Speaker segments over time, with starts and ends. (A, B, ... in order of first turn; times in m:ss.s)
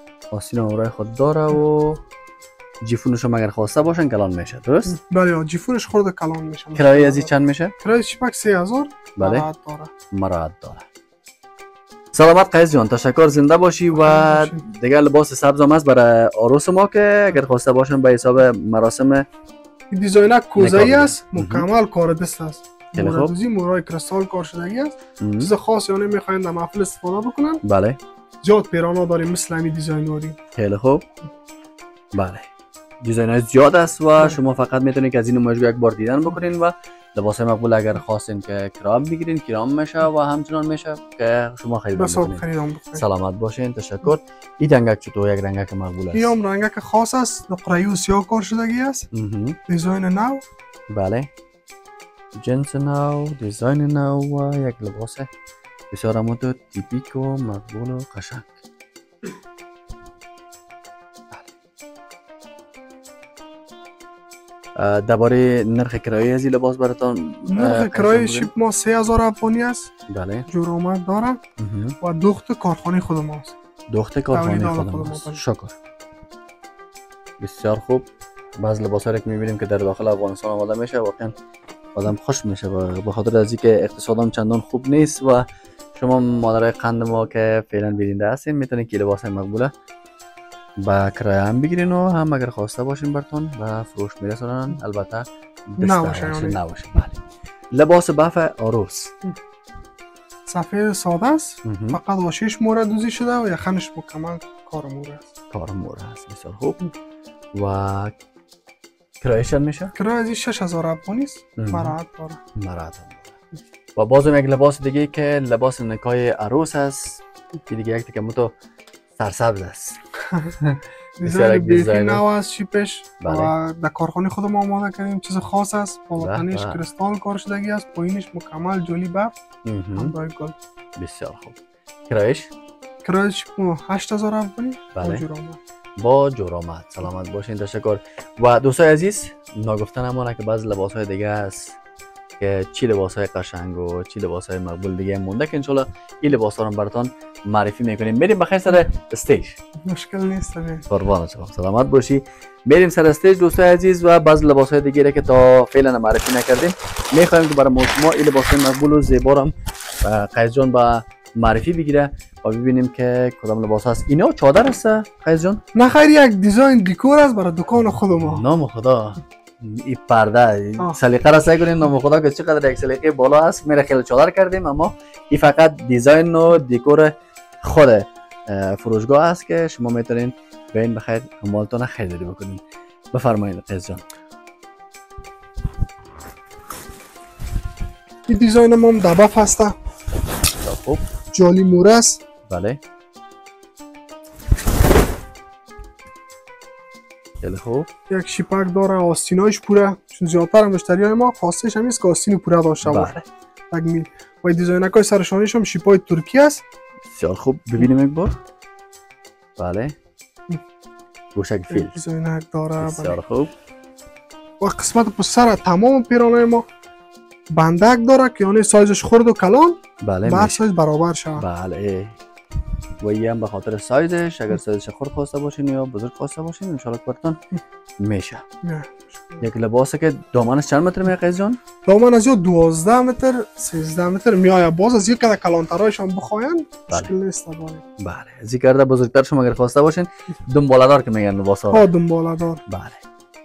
0:00.3-0:02.0 A
0:02.8-0:05.0 A
0:04.9-0:09.9 B
0:06.8-0:07.7 A
0:09.2-0:09.5 A
0:10.1-0:10.9 A
0:12.1-0:19.3 A
0:14.0-0:14.6 B
0:19.9-0:27.6 B
0:20.6-0:21.7 A
0:23.0-0:23.3 A
0:25.2-0:25.5 A
0:27.6-0:28.0 A
0:28.4-0:30.4 B
0:30.6-0:31.0 A
0:32.1-0:32.5 A
0:33.0-0:46.3 A
0:42.0-0:43.0 B
0:46.1-0:49.1 B
0:49.1-0:49.6 A
0:49.7-0:50.4 B
0:50.9-0:51.3 A
0:52.4-0:55.3 A
0:55.9-0:58.6 A
1:04.8-1:08.5 A
1:07.5-1:09.9 B
1:10.1-1:10.5 A
1:10.5-1:11.4 B
1:11.6-1:12.0 A
1:12.0-1:13.6 B
1:13.9-1:15.8 A
1:14.3-1:15.4 B
1:17.4-1:18.1 A
1:18.6-1:21.3 A
1:22.0-1:29.7 A
1:30.8-1:37.2 A
1:35.8-1:36.6 B
1:37.7-1:39.1 A
1:40.5-1:45.3 B
1:41.6-1:42.0 A
1:45.5-1:46.8 A
1:47.6-1:48.1 A
1:49.2-1:49.9 A
1:50.0-1:52.4 B
1:51.6-1:52.0 A
1:52.6-1:53.4 A
1:54.0-1:58.5 A
1:59.2-2:00.0 A
2:00.6-2:02.2 A
2:01.2-2:09.3 B
2:03.2-2:03.5 A
2:06.2-2:06.8 A
2:09.6-2:10.1 A
2:10.0-2:10.6 B
2:11.0-2:12.5 A
2:13.0-2:15.6 B
2:15.0-2:15.3 A
2:16.0-2:21.8 A
2:22.4-2:29.6 A
2:29.8-2:30.9 B
2:30.9-2:45.6 A
2:45.8-2:48.4 B
2:48.2-3:02.6 A
3:03.1-3:04.0 A
3:08.3-3:09.8 B
3:10.6-3:11.0 A
3:11.3-3:12.2 B
3:12.5-3:12.8 A
3:17.4-3:17.9 A
3:18.1-3:23.2 B
3:22.8-3:23.3 A
3:23.7-3:26.6 B
3:27.1-3:28.3 A
3:29.6-3:30.0 A
3:31.4-3:32.0 A
3:31.7-3:33.2 B
3:32.8-3:33.5 A
3:34.6-3:36.6 B
3:37.5-3:41.4 B
3:40.0-3:40.6 A
3:41.4-3:42.2 A
3:43.0-3:47.4 A
3:48.0-3:48.4 A
3:48.6-3:49.5 B
3:49.4-3:51.6 A
3:51.9-3:57.8 B
3:58.0-4:01.9 A
4:01.7-4:02.6 B
4:02.7-4:03.0 A